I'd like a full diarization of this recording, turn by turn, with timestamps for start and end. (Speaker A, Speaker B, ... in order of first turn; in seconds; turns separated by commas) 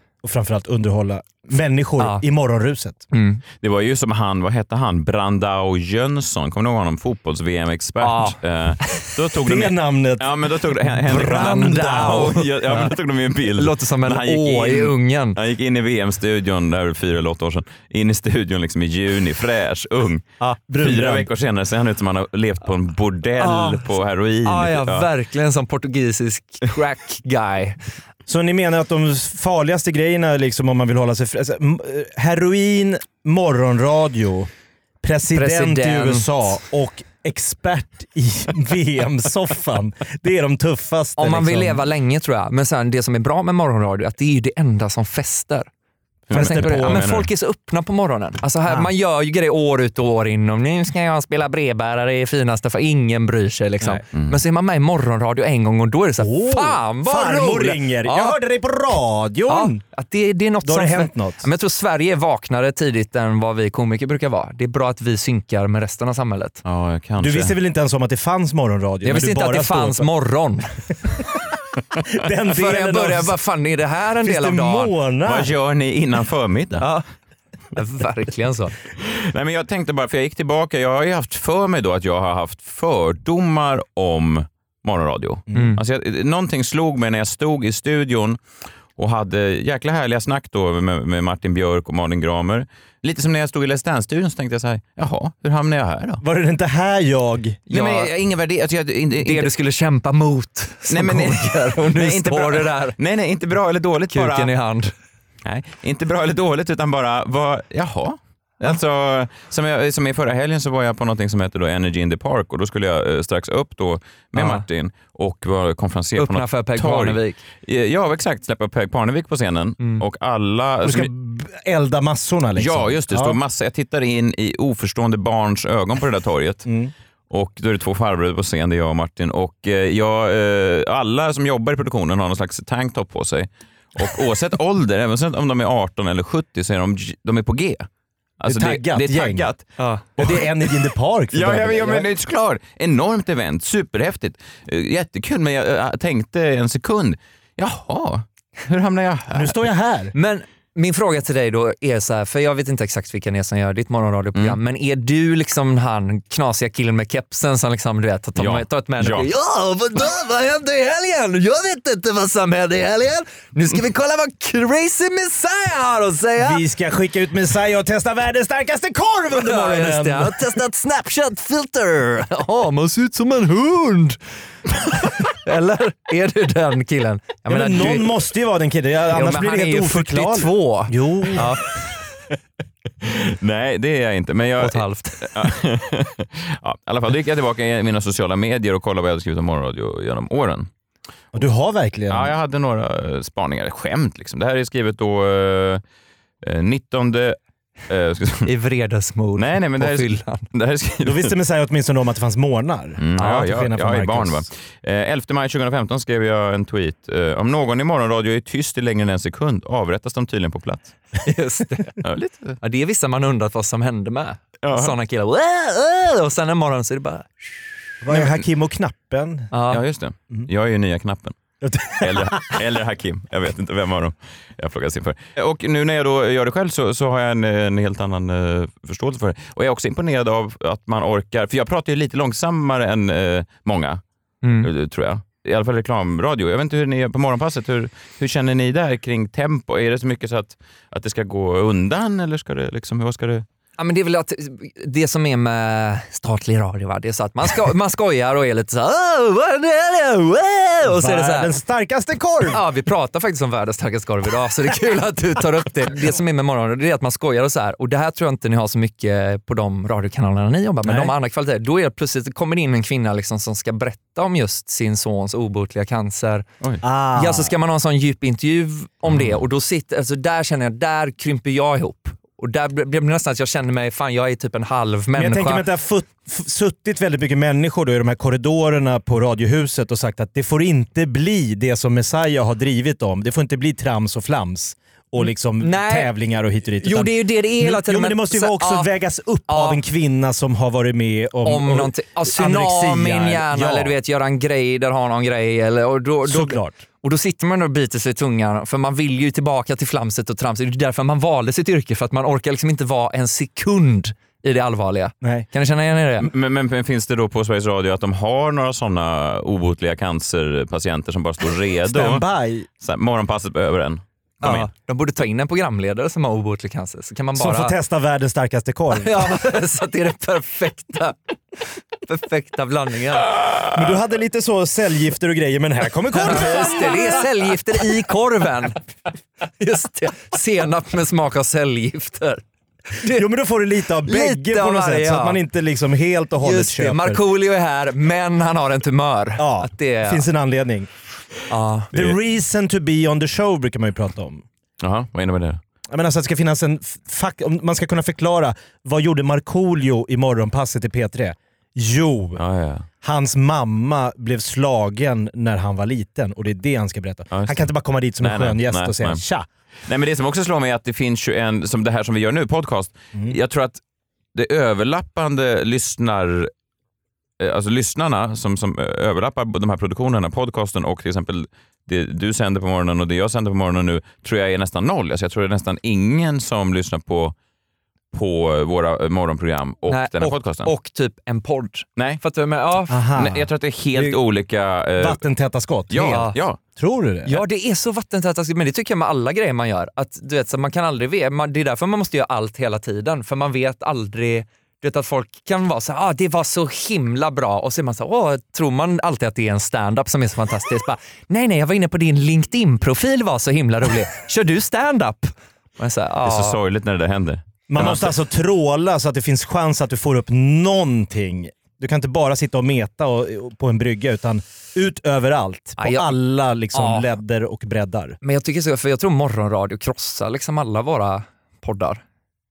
Speaker A: 0.2-3.1, Speaker B: 3.1-3.4, Speaker C: 3.6-20.3, Speaker B: 8.0-9.0, Speaker A: 9.4-12.4, Speaker B: 11.1-12.9, Speaker B: 13.5-15.4, Speaker A: 20.4-21.3, Speaker C: 20.8-25.1, Speaker B: 23.4-23.9, Speaker B: 24.4-27.8, Speaker A: 28.3-34.5, Speaker A: 35.0-41.8, Speaker B: 35.3-36.5, Speaker B: 41.2-45.7, Speaker C: 46.3-47.3, Speaker A: 46.3-47.0, Speaker B: 46.3-58.4, Speaker C: 54.1-54.4, Speaker A: 56.2-59.8, Speaker B: 59.5-66.6, Speaker A: 60.6-61.5, Speaker C: 66.7-67.5, Speaker A: 67.2-70.1, Speaker B: 69.0-70.7, Speaker A: 72.1-73.3, Speaker B: 72.5-74.9, Speaker A: 74.2-75.5, Speaker C: 75.3-76.9, Speaker B: 76.8-77.0, Speaker B: 77.8-78.8, Speaker C: 79.0-88.4, Speaker A: 85.5-85.8, Speaker B: 85.5-85.8, Speaker C: 89.0-96.2, Speaker A: 96.2-97.6, Speaker B: 97.7-98.1, Speaker C: 97.7-99.5, Speaker B: 99.2-103.0, Speaker C: 100.9-104.5, Speaker B: 104.1-104.9, Speaker C: 105.5-121.1, Speaker B: 114.4-114.6, Speaker B: 116.2-117.4, Speaker A: 120.8-123.4, Speaker C: 122.6-126.7, Speaker A: 126.7-126.9, Speaker C: 127.3-137.9, Speaker C: 138.4-139.7, Speaker A: 138.5-139.5, Speaker B: 139.8-140.0, Speaker A: 140.2-142.1, Speaker C: 141.3-149.6, Speaker A: 149.3-150.1, Speaker B: 150.2-166.6, Speaker C: 158.4-159.3, Speaker A: 166.4-170.5, Speaker B: 169.3-174.2, Speaker B: 174.8-178.2, Speaker A: 177.5-181.5, Speaker B: 179.1-181.7, Speaker C: 183.0-190.7, Speaker B: 184.6-185.3, Speaker A: 191.3-192.3, Speaker C: 192.1-195.8, Speaker C: 196.4-198.5, Speaker B: 198.5-200.5, Speaker C: 199.4-201.3, Speaker A: 201.0-204.5, Speaker C: 203.0-210.9, Speaker B: 211.2-212.0, Speaker C: 212.0-212.6, Speaker B: 212.6-217.7, Speaker C: 214.6-214.9, Speaker A: 218.0-219.5, Speaker B: 219.5-219.8, Speaker C: 219.7-221.4, Speaker A: 221.6-222.6, Speaker C: 221.9-234.0, Speaker B: 234.4-234.7, Speaker C: 234.6-243.5, Speaker B: 243.8-251.5, Speaker A: 250.8-252.6, Speaker B: 252.5-266.4, Speaker A: 260.8-261.1, Speaker A: 266.8-267.5, Speaker B: 267.2-275.6, Speaker A: 275.1-293.9, Speaker B: 285.6-286.1, Speaker B: 286.8-288.9, Speaker B: 289.5-289.8, Speaker B: 291.4-306.3, Speaker A: 296.2-296.8, Speaker C: 306.2-312.2, Speaker A: 311.9-312.7, Speaker C: 312.8-314.7, Speaker B: 314.4-317.8, Speaker A: 317.4-319.4, Speaker B: 318.9-323.4, Speaker A: 323.7-327.5, Speaker B: 326.1-328.8, Speaker B: 329.6-333.3, Speaker A: 333.0-337.2, Speaker B: 334.1-335.4, Speaker B: 336.4-340.2, Speaker A: 339.4-340.9, Speaker B: 341.5-341.9, Speaker A: 341.9-344.4, Speaker C: 344.8-345.6, Speaker A: 345.9-352.4, Speaker C: 352.4-352.9, Speaker A: 353.0-359.5, Speaker C: 357.3-357.6, Speaker C: 358.2-359.2, Speaker C: 359.9-363.8, Speaker C: 364.4-366.5, Speaker C: 367.4-377.4, Speaker C: 378.1-380.7, Speaker B: 379.9-383.0, Speaker A: 382.9-384.2, Speaker C: 383.1-385.2, Speaker A: 385.0-387.4, Speaker C: 385.9-386.6, Speaker B: 386.1-386.4, Speaker B: 387.3-406.6, Speaker C: 406.2-408.1, Speaker A: 407.7-418.2, Speaker B: 415.8-416.2, Speaker B: 416.7-417.1, Speaker B: 418.2-422.0